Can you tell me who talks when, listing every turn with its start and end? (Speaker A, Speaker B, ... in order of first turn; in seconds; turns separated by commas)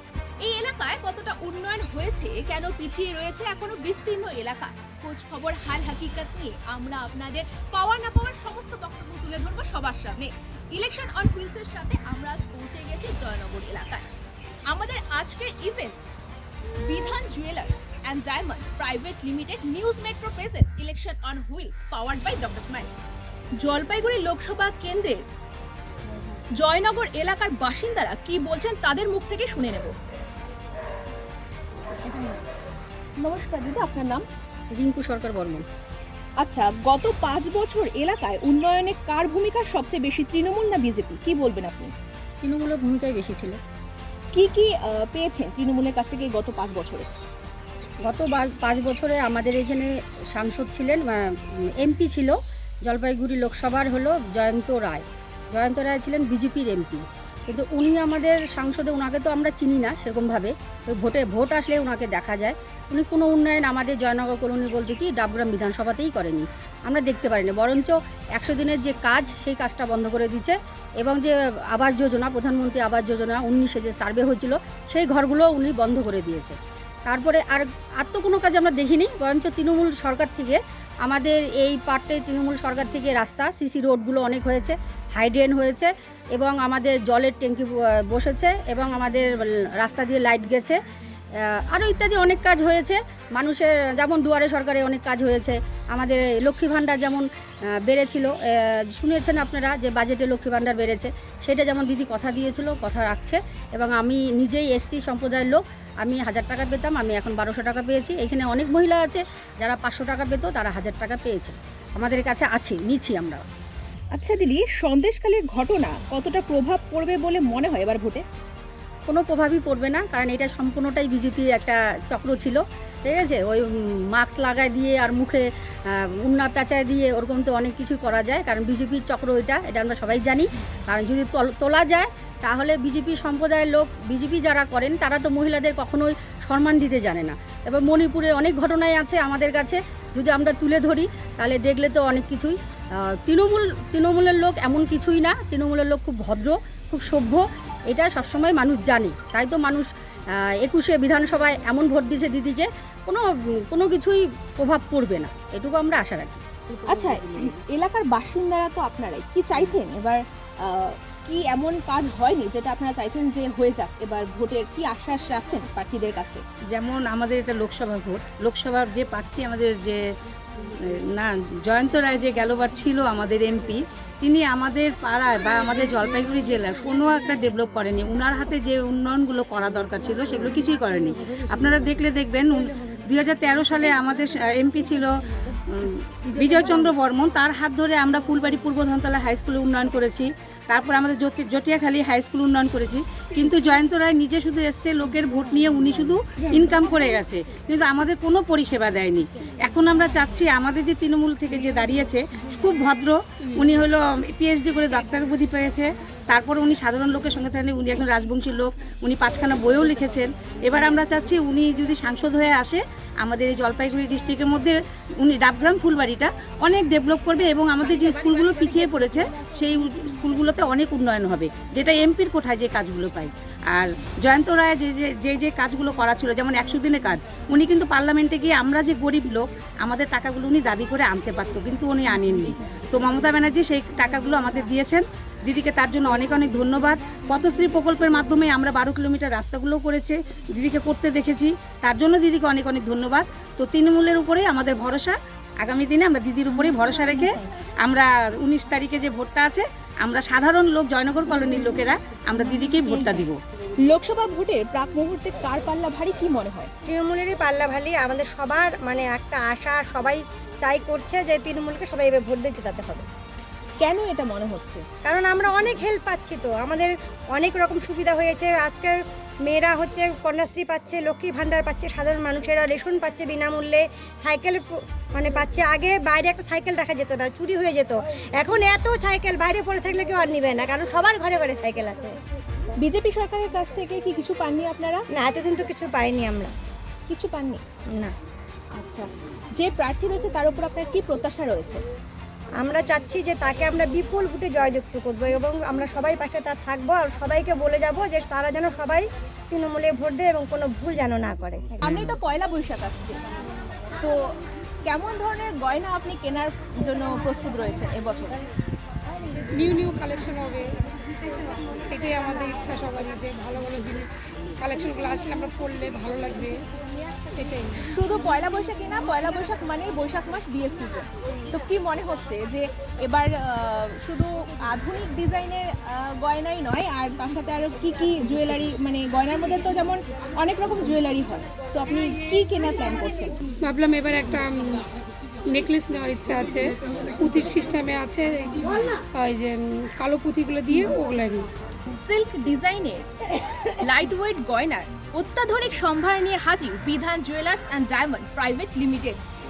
Speaker A: 0.4-14.1, Speaker A: 14.7-16.0, Speaker A: 16.8-22.9, Speaker A: 23.6-25.2, Speaker A: 26.6-29.9, Speaker A: 31.9-32.4, Speaker A: 33.2-34.2, Speaker B: 34.8-35.6, Speaker A: 36.4-41.9, Speaker B: 42.4-43.6, Speaker A: 44.3-47.1, Speaker B: 48.0-76.5, Speaker B: 77.1-90.8, Speaker B: 91.4-97.3, Speaker B: 97.8-113.4, Speaker A: 114.1-118.2, Speaker B: 119.1-142.6, Speaker B: 143.1-149.9, Speaker B: 150.4-156.4, Speaker A: 156.9-166.4, Speaker C: 166.7-170.0, Speaker C: 170.7-253.4, Speaker A: 253.9-256.7, Speaker D: 256.9-263.1, Speaker A: 263.8-264.9, Speaker D: 265.1-282.2, Speaker A: 282.8-285.1, Speaker D: 285.1-286.6, Speaker A: 287.1-287.6, Speaker D: 287.9-288.1, Speaker A: 288.8-291.8, Speaker D: 292.6-302.1, Speaker A: 301.8-303.2, Speaker A: 304.0-308.4, Speaker E: 309.5-310.7, Speaker E: 311.8-316.6, Speaker E: 317.4-317.8, Speaker A: 317.8-333.4, Speaker E: 333.6-334.9, Speaker E: 335.5-341.5, Speaker A: 341.9-343.1, Speaker A: 343.8-349.2